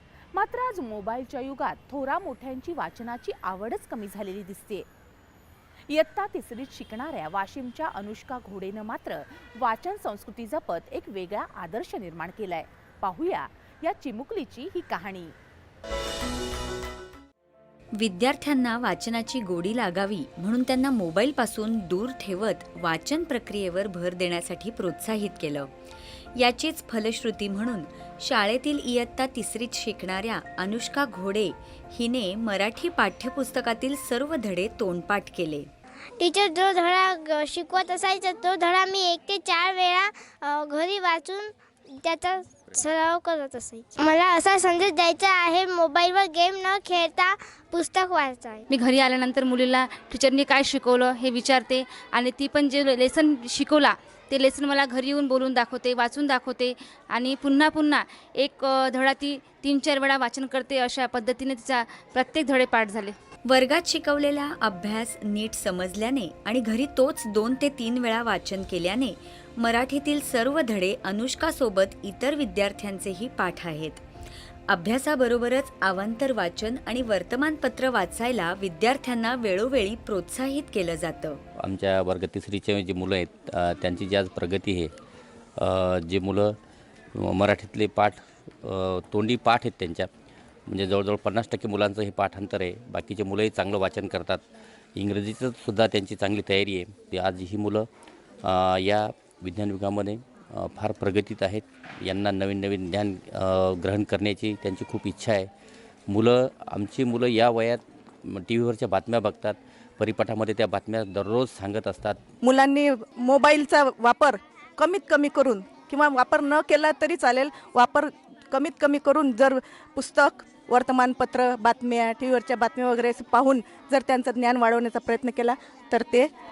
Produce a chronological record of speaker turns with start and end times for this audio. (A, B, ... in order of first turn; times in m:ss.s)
0:00.3-0:04.9 A
0:05.9-0:15.3 A
0:18.0-0:25.7 B
0:26.4-0:35.7 B
0:36.2-0:41.5 C
0:42.0-0:48.6 C
0:48.7-1:03.1 D
1:03.4-1:14.0 B
1:14.7-1:21.4 B
1:21.6-1:24.9 E
1:25.6-1:26.6 E
1:27.1-1:30.1 E
1:30.7-1:34.4 E
1:34.9-1:37.9 E
1:38.4-1:45.5 E
1:46.1-1:52.2 E
1:52.4-2:06.3 F